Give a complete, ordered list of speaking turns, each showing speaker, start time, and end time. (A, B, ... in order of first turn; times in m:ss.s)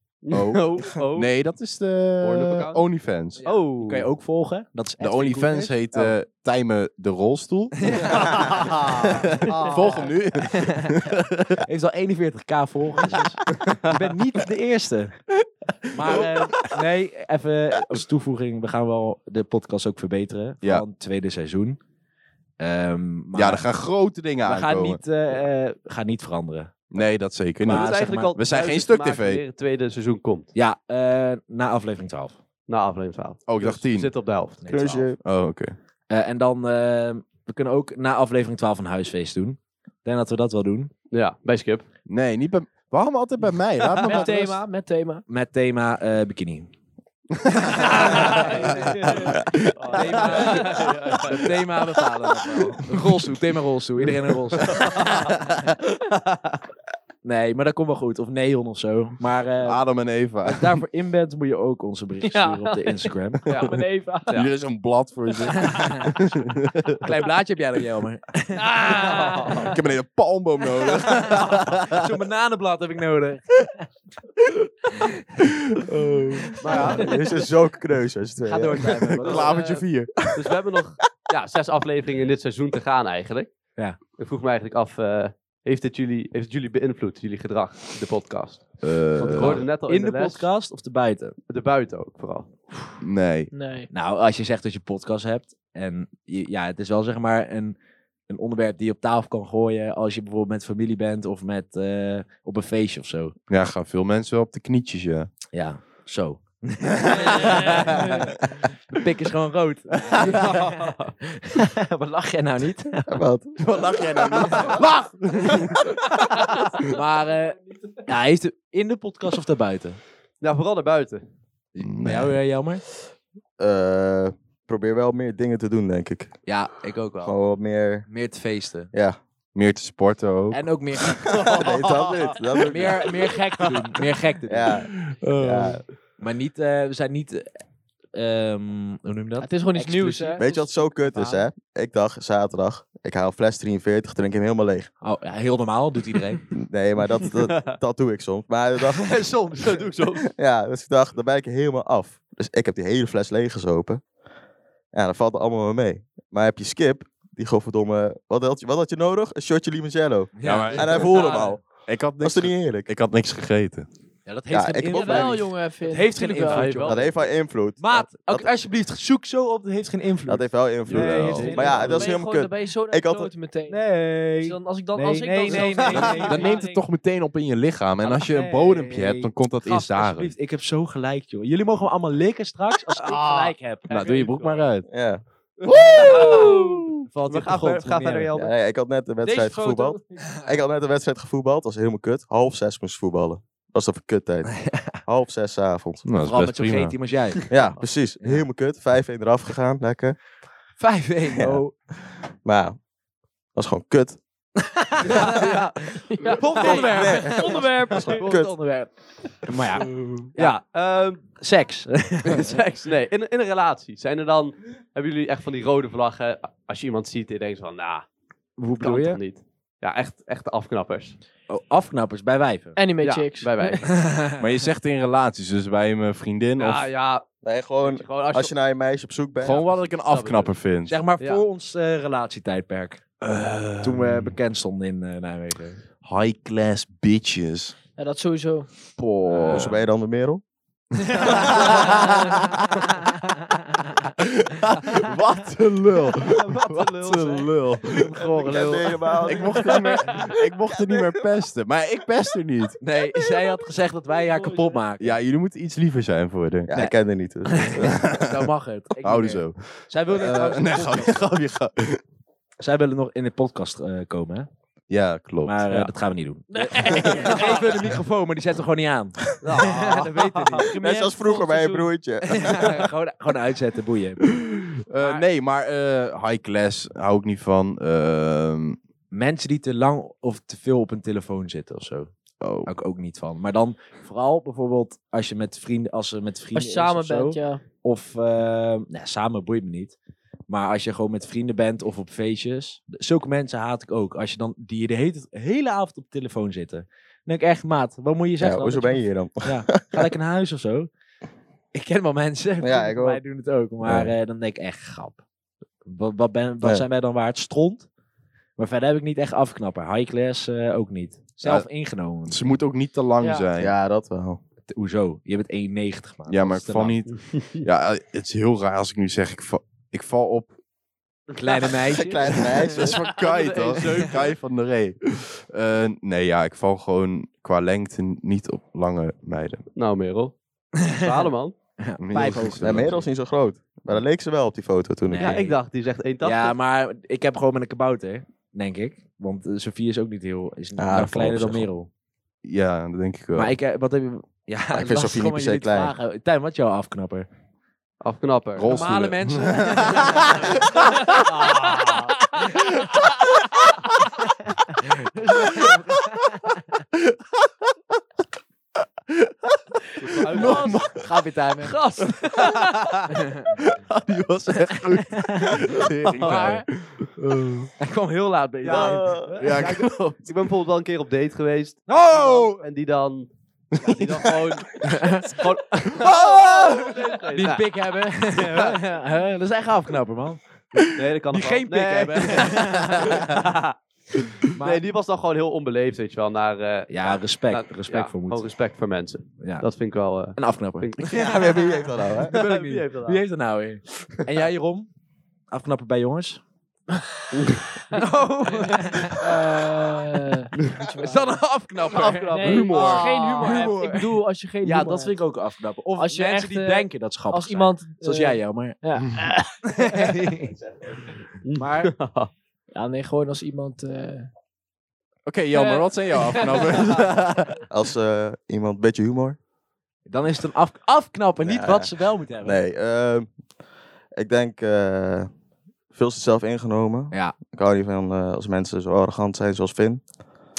0:00.2-0:01.3 A
0:00.3-0:03.4 B
0:02.2-0:02.8 A
0:03.4-0:06.1 C
0:03.4-0:04.1 A
0:05.0-0:11.6 B
0:07.8-0:09.2 C
0:08.2-0:10.1 A
0:10.5-0:10.9 C
0:11.6-0:15.2 C
0:13.6-0:13.9 A
0:15.8-0:21.8 C
0:22.6-0:23.7 C
0:23.3-0:25.0 B
0:24.4-0:26.7 C
0:26.9-0:29.4 B
0:27.6-0:28.3 C
0:27.6-0:30.5 A
0:30.5-0:32.4 C
0:32.7-0:34.6 A
0:33.5-0:34.1 B
0:34.6-0:35.1 C
0:34.7-0:35.2 D
0:35.2-0:35.7 B
0:36.1-0:40.9 C
0:41.1-0:41.8 A
0:42.1-0:44.6 B
0:44.0-0:45.2 E
0:45.3-0:46.7 C
0:47.4-0:47.9 B
0:47.5-0:55.1 C
0:47.8-0:49.4 E
0:48.2-0:51.5 A
0:49.9-0:50.8 E
0:54.6-0:56.6 A
0:57.2-0:59.8 C
0:59.6-1:00.8 B
1:00.4-1:03.4 C
1:02.2-1:04.3 E
1:03.5-1:04.5 A
1:04.3-1:07.0 B
1:05.5-1:06.1 C
1:07.0-1:09.0 C
1:08.5-1:09.8 E
1:09.0-1:09.7 A
1:09.5-1:12.1 B
1:10.8-1:13.7 C
1:15.4-1:16.9 B
1:16.5-1:17.2 C
1:16.9-1:19.1 D
1:18.4-1:19.6 C
1:19.1-1:20.4 B
1:19.3-1:23.5 A
1:24.1-1:30.5 A
1:28.8-1:29.6 B
1:29.2-1:31.4 C
1:31.5-1:32.5 A
1:33.0-1:33.5 B
1:33.5-1:33.9 E
1:33.9-1:43.3 C
1:43.5-1:45.3 B
1:45.5-1:53.2 C
1:47.0-1:47.8 B
1:47.3-1:48.3 E
1:50.0-1:50.4 B
1:50.2-1:51.1 A
1:53.1-1:54.7 D
1:53.6-1:56.0 B
1:56.4-1:58.0 E
1:56.8-2:00.0 C
2:00.4-2:01.2 A
2:01.7-2:02.8 C
2:01.8-2:02.4 B
2:03.6-2:06.3 D
2:06.4-2:07.4 C
2:07.2-2:08.1 D
2:08.1-2:08.9 C
2:08.9-2:09.2 D
2:09.5-2:10.6 B
2:10.5-2:11.4 C
2:11.2-2:13.1 D
2:11.3-2:12.3 A
2:12.6-2:14.7 C
2:14.5-2:15.8 D
2:14.9-2:15.8 B
2:16.2-2:17.6 C
2:18.1-2:21.4 C
2:19.4-2:20.4 E
2:20.4-2:24.9 D
2:25.0-2:26.4 C
2:26.5-2:29.3 D
2:27.3-2:27.8 A
2:29.0-2:30.3 A
2:30.3-2:34.0 D
2:34.9-2:42.9 D
2:40.4-2:41.1 C
2:40.4-2:43.9 B
2:40.9-2:41.6 A
2:44.2-2:47.2 C
2:44.5-2:45.4 D
2:44.9-2:46.7 E
2:46.4-2:47.2 A
2:46.8-2:48.5 D
2:47.8-2:52.0 C
2:50.3-2:53.3 D
2:50.9-2:51.8 B
2:51.0-2:53.8 E
2:51.3-2:52.1 A
2:53.7-2:56.6 C
2:54.4-2:56.8 E
2:55.8-3:00.3 B
2:58.0-3:04.6 C
3:03.0-3:03.5 A
3:03.9-3:04.9 B
3:04.9-3:06.5 D
3:05.7-3:07.0 B
3:05.9-3:06.6 A
3:06.0-3:06.3 C
3:06.1-3:06.9 E
3:07.0-3:08.3 C
3:07.3-3:08.5 A
3:08.3-3:16.0 D
3:09.2-3:10.2 E
3:14.5-3:15.0 C
3:16.0-3:17.0 B
3:16.2-3:18.4 C
3:17.5-3:20.2 D
3:20.8-3:21.7 C
3:21.4-3:22.8 D
3:23.5-3:24.2 D
3:24.7-3:25.5 C
3:25.0-3:27.4 A
3:26.1-3:28.3 E
3:26.2-3:30.6 C
3:26.6-3:28.6 D
3:30.4-3:31.3 A
3:31.4-3:32.6 C
3:32.2-3:38.0 A
3:38.6-3:39.2 C
3:38.8-3:41.2 A
3:41.5-3:42.8 C
3:42.8-3:43.9 E
3:43.0-3:43.9 A
3:43.8-3:44.4 C
3:44.3-3:46.9 B
3:46.6-3:47.2 A
3:47.4-3:49.6 D
3:47.8-3:48.5 A
3:49.4-3:51.0 B
3:49.5-3:50.5 A
3:50.8-3:53.0 C
3:53.2-3:54.4 B
3:53.8-3:55.8 C
3:56.0-3:57.7 B
3:58.0-3:58.7 E
3:59.0-3:59.8 B
3:59.3-3:59.7 C
3:59.5-4:00.4 D
4:01.1-4:03.0 B
4:01.2-4:02.1 C
4:03.7-4:04.0 C
4:04.2-4:08.3 B
4:06.2-4:10.3 C
4:08.4-4:09.8 D
4:09.2-4:12.8 B
4:10.7-4:11.2 D
4:12.8-4:15.2 C
4:14.3-4:14.8 E
4:15.0-4:16.7 B
4:16.7-4:18.1 D
4:16.7-4:21.3 C
4:17.8-4:18.5 B
4:19.0-4:22.0 B
4:22.6-4:24.5 C
4:24.9-4:25.9 B
4:25.4-4:30.7 C
4:26.5-4:27.9 E
4:29.4-4:30.6 A
4:30.6-4:31.9 E
4:30.7-4:32.8 D
4:32.2-4:34.4 C
4:34.3-4:38.8 B
4:35.0-4:35.2 C
4:39.1-4:42.1 C
4:42.4-4:42.7 B
4:42.6-4:50.0 C
4:46.5-4:47.6 E
4:50.5-5:00.9 C
4:58.4-5:00.1 D
5:01.7-5:05.2 C
5:02.6-5:03.2 D
5:03.8-5:04.1 D
5:05.8-5:07.9 C
5:08.6-5:12.5 C
5:12.3-5:13.7 B
5:13.2-5:13.5 E
5:13.6-5:14.4 D
5:14.7-5:17.0 C
5:16.3-5:20.5 B
5:17.1-5:17.6 A
5:21.4-5:22.6 C
5:21.9-5:23.0 D
5:22.2-5:29.6 B
5:23.0-5:24.3 A
5:29.8-5:30.3 A
5:30.9-5:31.5 A
5:30.9-5:31.2 C
5:31.8-5:33.0 C
5:32.0-5:33.0 B
5:32.6-5:35.4 D
5:35.1-5:35.6 C
5:35.2-5:36.6 A
5:36.2-5:41.9 C
5:40.8-5:41.7 D
5:42.4-5:43.5 B
5:43.3-5:47.3 C
5:44.7-5:45.9 D
5:48.0-5:48.7 A
5:48.6-5:51.0 B
5:48.7-5:50.6 C
5:49.7-5:50.0 E
5:50.8-5:52.4 E
5:51.5-5:51.9 A
5:54.8-5:56.6 C
5:55.4-5:56.3 B
5:56.9-5:57.5 B
5:59.1-6:01.1 B
6:00.0-6:00.8 A
6:00.3-6:00.8 E
6:00.9-6:01.8 C
6:01.6-6:03.0 E
6:03.6-6:07.7 B
6:04.7-6:05.6 C
6:06.2-6:06.5 A
6:06.2-6:06.6 C
6:07.8-6:09.6 C
6:08.6-6:09.4 D
6:08.6-6:18.8 A
6:09.4-6:09.9 B
6:11.9-6:12.6 C
6:13.7-6:14.3 B
6:14.8-6:15.4 C
6:15.9-6:16.8 B
6:16.0-6:20.4 C
6:20.9-6:23.8 A
6:21.3-6:23.4 C
6:24.4-6:31.4 A
6:24.5-6:24.8 C
6:26.9-6:28.5 C
6:29.4-6:29.6 C
6:30.3-6:34.9 C
6:31.0-6:32.3 D
6:32.2-6:33.2 A
6:35.5-6:36.4 C
6:37.3-6:37.7 A
6:37.9-6:39.7 C
6:38.6-6:41.3 E
6:40.9-6:48.8 C
6:41.9-6:43.7 A
6:42.3-6:45.2 E
6:42.4-6:43.1 B
6:46.0-6:50.2 E
6:49.6-6:50.6 C
6:51.4-6:52.3 A
6:51.6-6:51.9 C
6:52.7-6:54.3 E
6:55.2-6:57.6 B
6:55.5-6:57.0 E
6:57.7-6:59.4 D
7:00.0-7:02.6 C
7:01.4-7:03.3 D
7:04.2-7:05.3 D
7:05.9-7:10.0 D